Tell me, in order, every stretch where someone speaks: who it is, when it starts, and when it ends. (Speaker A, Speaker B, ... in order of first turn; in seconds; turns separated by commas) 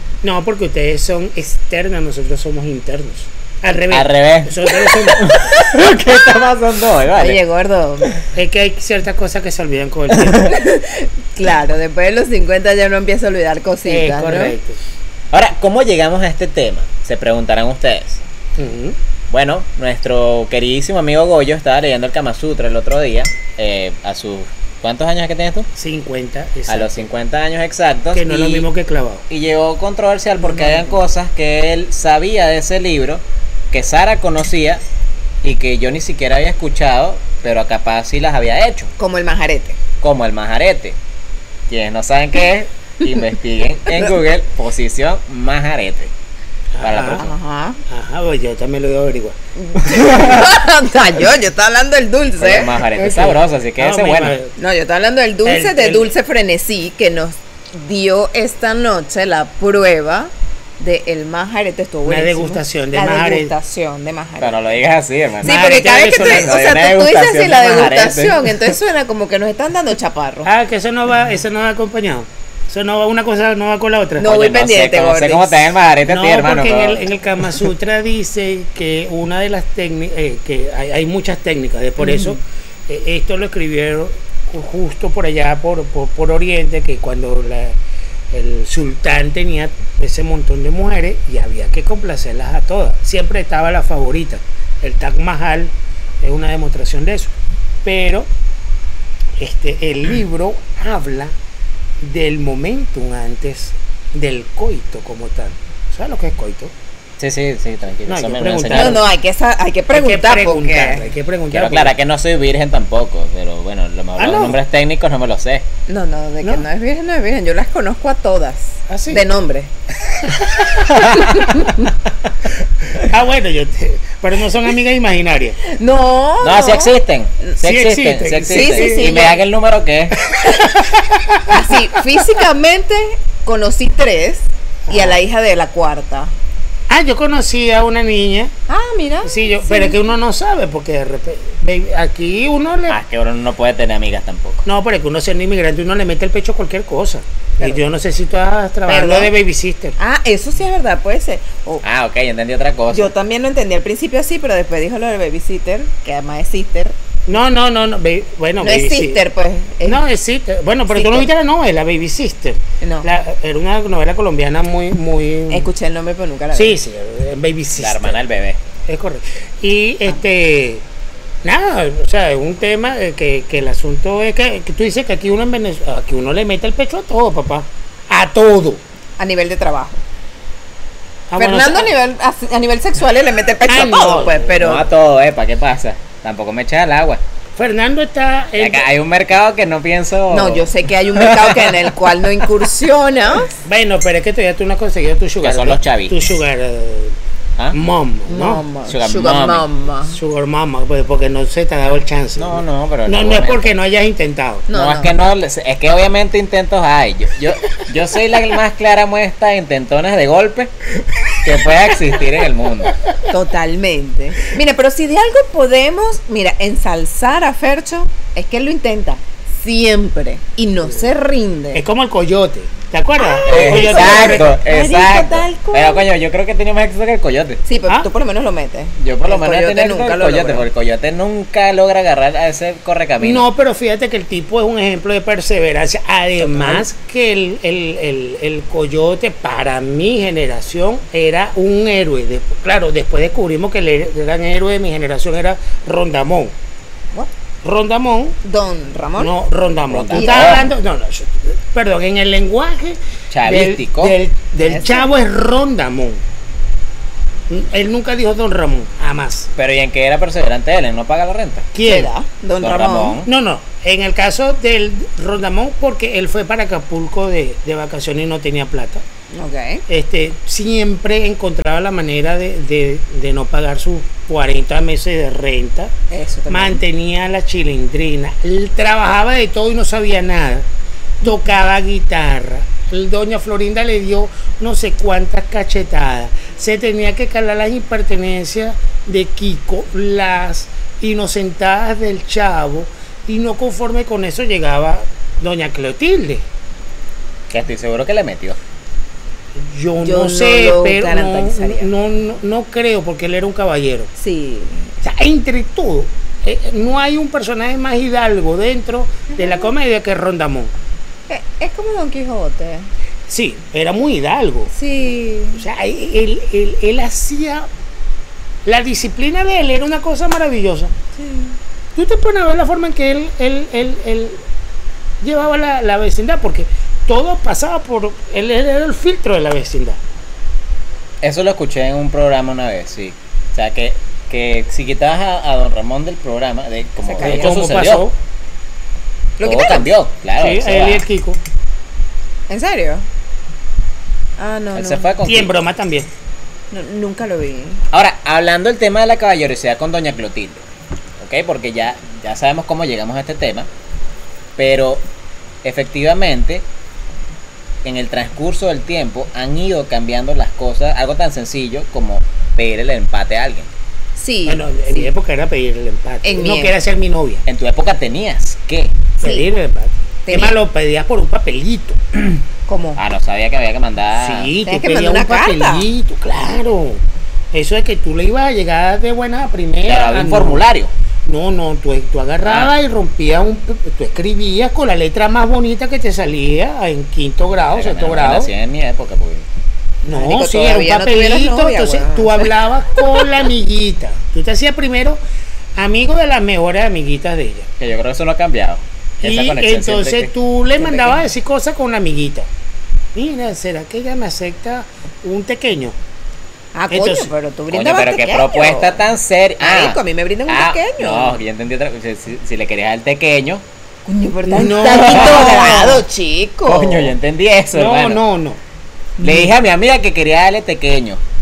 Speaker A: 0.2-5.3, Speaker B: 3.9-7.4, Speaker C: 5.3-5.6, Speaker C: 7.1-8.1, Speaker A: 8.3-10.5, Speaker B: 10.1-10.5, Speaker C: 10.4-14.5, Speaker A: 13.8-14.8, Speaker B: 15.3-18.2, Speaker A: 18.6-19.0, Speaker B: 19.3-25.7, Speaker A: 25.8-27.1, Speaker B: 26.7-28.7, Speaker A: 28.1-29.2, Speaker B: 29.3-34.8, Speaker C: 30.4-31.0, Speaker B: 35.4-38.9, Speaker C: 39.0-39.8, Speaker B: 40.0-41.0, Speaker B: 41.7-46.1, Speaker A: 46.7-47.2, Speaker B: 46.8-47.3, Speaker C: 47.1-47.8, Speaker A: 47.9-50.3, Speaker C: 49.6-52.8, Speaker B: 52.4-54.3, Speaker A: 52.9-54.5, Speaker C: 54.6-64.6, Speaker A: 55.4-56.1, Speaker A: 62.0-63.5, Speaker B: 64.4-68.5, Speaker A: 65.4-66.6, Speaker C: 65.4-70.5, Speaker A: 70.4-74.4, Speaker C: 74.2-75.7, Speaker B: 74.2-77.0, Speaker A: 76.1-87.8, Speaker C: 82.0-82.4, Speaker A: 88.3-98.3, Speaker A: 99.4-101.3, Speaker A: 102.0-106.7, Speaker B: 107.2-109.0, Speaker A: 108.1-109.1, Speaker C: 108.7-111.0, Speaker A: 109.9-111.9, Speaker B: 111.5-115.6, Speaker A: 114.2-114.6, Speaker C: 115.9-119.7, Speaker A: 118.9-119.2, Speaker A: 120.2-120.7, Speaker B: 120.8-121.5, Speaker C: 121.0-121.9, Speaker A: 122.8-125.6, Speaker C: 125.6-126.9, Speaker B: 126.4-130.2, Speaker A: 127.6-129.2, Speaker C: 128.5-129.4, Speaker A: 130.2-131.8, Speaker C: 130.4-130.7, Speaker C: 131.5-136.3, Speaker A: 134.8-135.2, Speaker A: 136.9-138.5, Speaker C: 138.7-140.0, Speaker A: 139.2-143.0, Speaker B: 142.9-144.7, Speaker A: 144.7-149.9, Speaker C: 148.9-149.3, Speaker C: 150.0-151.8, Speaker B: 151.8-153.1, Speaker C: 152.9-156.9, Speaker A: 157.3-159.2, Speaker C: 158.6-160.0, Speaker A: 159.8-165.7, Speaker C: 160.9-161.3, Speaker C: 162.8-163.1, Speaker C: 165.5-166.8, Speaker A: 166.5-168.2, Speaker B: 167.8-168.6, Speaker A: 168.8-170.8, Speaker A: 171.4-178.8, Speaker C: 179.2-180.0, Speaker A: 181.3-181.9, Speaker C: 181.4-184.9, Speaker A: 183.7-184.6, Speaker B: 184.6-187.2, Speaker A: 187.6-188.8, Speaker B: 188.6-191.9, Speaker C: 190.3-193.5, Speaker A: 193.6-197.2, Speaker B: 195.4-196.3, Speaker A: 197.7-198.6, Speaker C: 198.3-200.2, Speaker B: 198.8-199.7, Speaker A: 200.1-204.7, Speaker B: 202.4-203.8, Speaker C: 204.7-205.1, Speaker B: 204.7-210.7, Speaker B: 211.4-213.0, Speaker C: 213.3-221.8, Speaker A: 221.7-224.6, Speaker C: 223.3-226.1, Speaker B: 223.4-227.6, Speaker C: 227.7-230.7, Speaker B: 229.0-233.5, Speaker A: 233.2-246.5, Speaker A: 247.6-248.4, Speaker C: 248.4-249.3, Speaker A: 249.2-256.2, Speaker B: 249.9-250.7, Speaker C: 250.1-250.6, Speaker B: 253.3-254.2, Speaker C: 254.6-255.1, Speaker A: 257.5-259.5, Speaker B: 259.6-261.7, Speaker A: 261.7-262.1, Speaker C: 261.8-263.2, Speaker B: 262.6-263.3, Speaker A: 263.2-269.0, Speaker C: 269.3-269.8, Speaker A: 269.9-275.9, Speaker C: 276.1-276.8, Speaker A: 276.5-280.7, Speaker A: 281.2-296.4, Speaker B: 297.5-298.6, Speaker A: 299.5-304.1, Speaker C: 300.0-301.9, Speaker C: 304.2-304.9, Speaker A: 305.0-310.7, Speaker C: 311.3-312.9, Speaker A: 313.3-314.7, Speaker C: 314.7-315.6, Speaker A: 315.5-317.7, Speaker A: 318.6-320.9, Speaker C: 321.1-321.6, Speaker A: 321.9-324.4, Speaker A: 325.2-330.0, Speaker B: 331.2-338.1, Speaker C: 337.1-337.8, Speaker A: 337.2-338.1, Speaker C: 339.4-339.9, Speaker B: 339.4-341.1, Speaker A: 340.4-341.4, Speaker C: 342.5-343.0, Speaker C: 344.4-345.1, Speaker B: 344.7-345.5, Speaker A: 345.2-346.1, Speaker C: 346.7-347.8, Speaker B: 347.9-350.6, Speaker B: 351.2-353.7, Speaker B: 354.6-355.0, Speaker B: 355.6-356.6, Speaker B: 357.8-363.7, Speaker C: 364.1-365.1, Speaker A: 364.4-367.4, Speaker C: 366.2-366.7, Speaker B: 367.5-369.0, Speaker C: 369.2-369.5, Speaker A: 369.2-372.4, Speaker C: 370.2-370.6, Speaker C: 372.7-373.0, Speaker B: 372.9-374.5, Speaker A: 374.1-380.6, Speaker C: 374.6-375.9, Speaker B: 379.9-380.9, Speaker A: 381.2-388.5, Speaker B: 382.4-382.7, Speaker B: 387.7-389.5, Speaker C: 390.0-392.5, Speaker A: 390.1-395.2, Speaker A: 395.8-397.7, Speaker B: 397.8-400.3, Speaker A: 399.2-402.5, Speaker C: 400.8-401.2, Speaker A: 403.1-405.9, Speaker C: 406.7-409.0, Speaker A: 406.9-407.3, Speaker B: 407.7-413.6, Speaker C: 409.6-411.4, Speaker C: 414.1-417.1, Speaker A: 414.4-415.9, Speaker B: 414.7-416.0, Speaker B: 416.6-418.2, Speaker A: 417.7-418.6, Speaker B: 419.2-421.2, Speaker C: 419.2-419.5